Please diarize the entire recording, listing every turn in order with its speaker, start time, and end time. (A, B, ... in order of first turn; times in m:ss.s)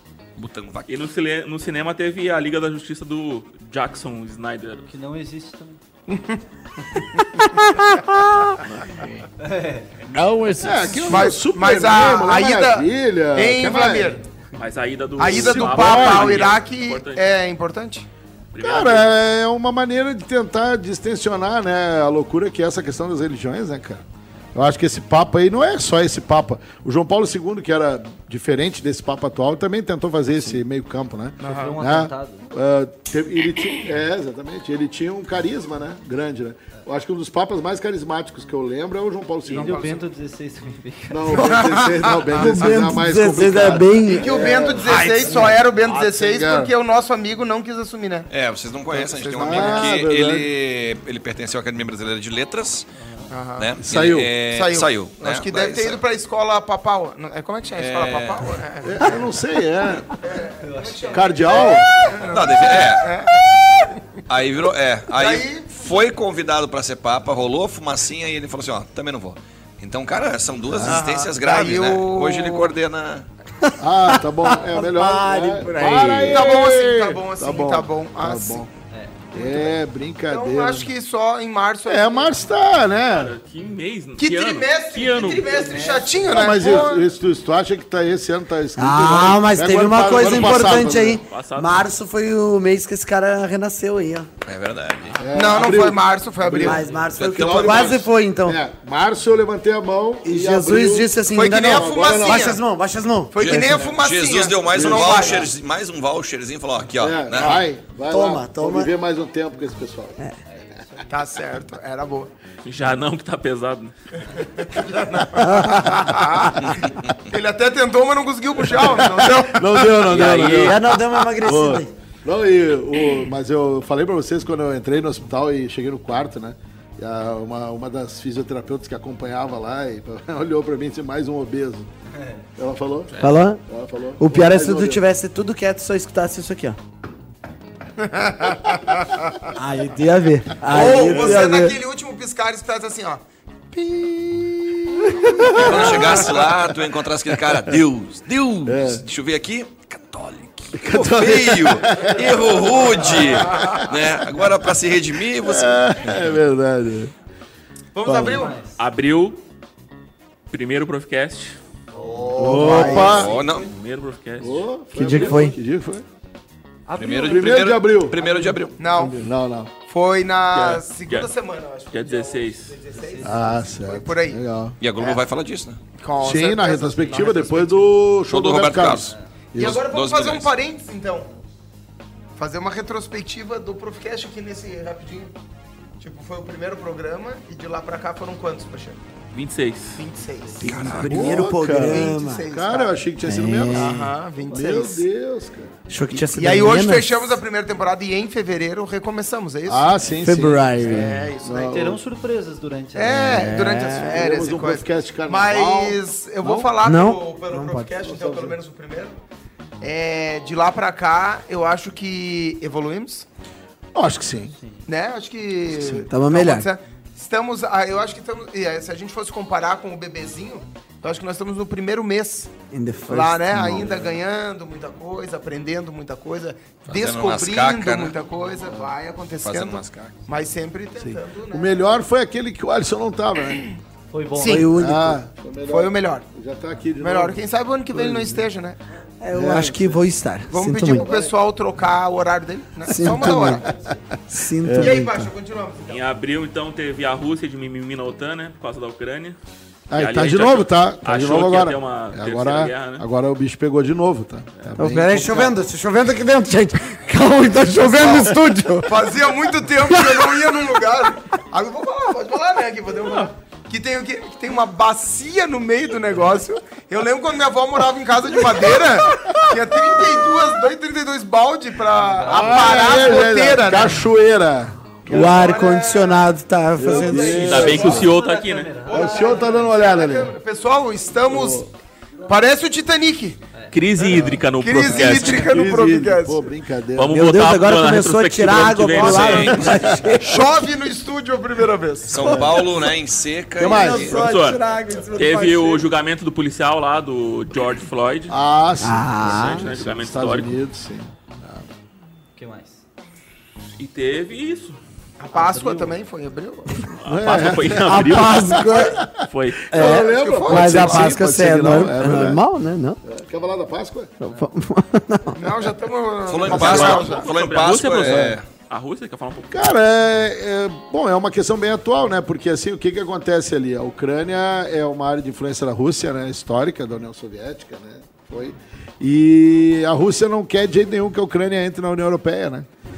0:00.4-0:00.9 A
0:00.9-0:04.9 B
0:04.9-0:05.8 C
0:06.1-0:06.4 D
0:07.6-0:08.6 E
0:09.4-0:10.0 C
0:10.1-0:11.1 A
0:10.6-0:11.1 E
0:10.6-0:14.2 F
0:11.1-0:14.2 D
0:14.6-0:17.2 B
0:15.2-0:18.1 D
0:15.2-0:16.5 F
0:18.5-0:19.2 B
0:18.6-0:24.0 F
0:24.6-0:39.8 F
0:31.4-0:31.8 D
0:31.4-0:32.5 C
0:39.5-0:41.5 C
0:39.6-0:40.1 D
0:41.1-0:46.7 F
0:41.3-0:42.7 D
0:42.3-0:45.4 E
0:44.1-0:48.3 D
0:48.3-0:52.9 A
0:48.9-0:50.0 D
0:49.4-0:50.5 F
0:53.0-0:53.3 C
0:53.3-0:53.7 D
0:53.6-0:56.0 A
0:53.8-0:54.4 F
0:54.5-0:59.1 D
0:57.8-0:58.5 A
0:58.8-1:00.1 F
1:00.1-1:03.4 D
1:00.6-1:02.2 C
1:01.1-1:01.9 F
1:02.3-1:03.1 A
1:04.3-1:13.3 A
1:05.1-1:05.7 D
1:10.7-1:11.0 F
1:10.9-1:12.7 D
1:13.6-1:16.5 E
1:13.8-1:18.7 F
1:15.9-1:18.7 D
1:18.9-1:19.4 C
1:19.3-1:20.9 F
1:19.4-1:22.4 D
1:21.9-1:23.3 F
1:23.1-1:25.5 B
1:24.2-1:27.1 D
1:25.4-1:27.0 C
1:26.3-1:31.2 F
1:28.8-1:34.3 E
1:30.3-1:31.8 B
1:34.4-1:35.3 A
1:35.2-1:42.6 F
1:35.3-1:37.0 D
1:36.6-1:38.6 E
1:36.7-1:37.1 C
1:37.1-1:38.0 A
1:40.2-1:43.7 E
1:41.3-1:42.6 D
1:43.3-1:45.5 D
1:43.4-1:47.6 A
1:43.5-1:43.9 F
1:44.7-1:45.5 F
1:47.0-1:50.2 F
1:48.1-1:48.9 E
1:50.5-1:51.0 C
1:51.1-1:52.3 D
1:52.6-1:53.9 B
1:54.3-1:56.6 D
1:55.4-1:56.5 E
1:56.6-1:57.2 A
1:57.3-2:00.1 D
1:58.7-2:11.9 F
2:00.1-2:00.8 B
2:00.2-2:00.7 A
2:00.2-2:01.9 E
2:12.6-2:15.0 F
2:13.2-2:13.6 E
2:14.2-2:16.8 E
2:18.0-2:19.2 D
2:19.6-2:21.8 E
2:20.6-2:23.2 D
2:20.7-2:21.4 F
2:23.7-2:26.7 F
2:25.5-2:36.4 A
2:27.5-2:27.8 F
2:28.7-2:29.0 F
2:30.7-2:32.6 F
2:33.2-2:33.8 D
2:35.4-2:37.1 F
2:37.9-2:38.6 D
2:38.1-2:38.4 F
2:38.3-2:38.8 C
2:38.8-2:39.4 B
2:40.5-2:41.6 B
2:41.9-2:43.7 C
2:42.0-2:43.2 D
2:42.4-2:43.3 F
2:42.5-2:43.3 E
2:43.0-2:43.7 A
2:43.1-2:44.6 B
2:44.4-2:46.0 F
2:44.9-2:45.6 E
2:46.9-2:48.6 C
2:47.0-2:48.8 A
2:47.3-2:48.2 F
2:48.8-2:49.3 D
2:49.0-2:49.3 E
2:49.2-2:49.7 F
2:49.8-2:54.4 D
2:50.5-2:51.3 B
2:51.9-2:52.8 B
2:52.9-2:53.7 C
2:53.2-2:54.8 F
2:54.8-2:55.8 A
2:56.0-2:57.9 D
2:56.2-2:59.8 F
2:58.3-3:00.5 A
2:59.0-2:59.3 C
2:59.5-3:01.3 D
3:02.4-3:05.3 D
3:06.0-3:09.0 D
3:09.3-3:10.0 B
3:10.0-3:10.9 D
3:10.6-3:12.5 E
3:10.6-3:11.3 A
3:11.1-3:15.7 F
3:11.7-3:13.1 D
3:13.2-3:14.1 E
3:13.7-3:15.1 D
3:15.9-3:17.4 E
3:16.2-3:20.2 D
3:19.7-3:22.0 F
3:20.2-3:21.2 E
3:20.8-3:21.9 D
3:21.6-3:23.1 C
3:23.0-3:29.2 D
3:23.0-3:24.2 E
3:24.0-3:26.0 F
3:26.8-3:27.9 E
3:28.0-3:28.6 F
3:29.8-3:33.3 D
3:34.0-3:34.6 F
3:34.6-3:34.8 C
3:34.9-3:42.5 D
3:36.1-3:36.7 E
3:42.7-3:43.9 E
3:43.1-3:51.9 D
3:43.5-3:44.0 F
3:46.8-3:48.2 A
3:49.4-3:50.2 A
3:51.0-3:53.7 F
3:54.1-3:54.7 C
3:54.3-3:54.7 D
3:54.4-3:55.2 E
3:54.7-3:57.4 F
3:55.7-3:56.2 D
3:57.0-3:58.8 D
3:57.9-3:58.5 F
3:59.2-4:01.1 E
3:59.3-4:00.0 F
4:00.5-4:03.7 D
4:00.9-4:01.3 F
4:02.8-4:03.7 E
4:04.3-4:05.2 E
4:04.6-4:05.1 F
4:04.8-4:06.0 D
4:05.9-4:09.4 B
4:09.9-4:15.5 F
4:10.0-4:13.0 B
4:14.8-4:19.0 E
4:18.0-4:34.1 D
4:19.8-4:20.2 E
4:31.9-4:33.2 C
4:32.3-4:35.5 F
4:35.1-4:37.8 E
4:35.1-4:36.3 D
4:36.8-4:38.1 F
4:36.8-4:38.1 D
4:37.0-4:39.7 C
4:37.3-4:38.7 B
4:38.9-4:41.7 D
4:38.9-4:40.3 F
4:41.3-4:41.7 F
4:42.3-4:43.4 D
4:43.7-4:45.5 B
4:44.0-4:47.2 F
4:44.6-4:46.5 D
4:47.0-4:50.0 B
4:47.1-4:50.5 E
4:48.9-4:49.8 A
4:50.2-4:52.5 D
4:52.1-4:54.2 A
4:52.2-4:52.6 F
4:53.6-4:54.2 F
4:53.6-4:55.9 E
4:54.1-4:58.3 B
4:58.3-5:01.7 F
4:58.8-4:59.7 E
4:59.2-5:00.6 B
5:02.4-5:02.8 C
5:03.8-5:04.8 B
5:05.2-5:06.9 D
5:05.3-5:06.0 C
5:06.9-5:09.7 B
5:07.1-5:09.2 F
5:07.7-5:09.0 E
5:09.7-5:12.4 F
5:09.7-5:13.0 E
5:09.8-5:11.1 D
5:13.0-5:14.1 F
5:14.2-5:15.4 E
5:15.4-5:17.3 D
5:16.3-5:18.4 A
5:16.5-5:19.7 B
5:18.0-5:18.4 F
5:19.5-5:32.7 F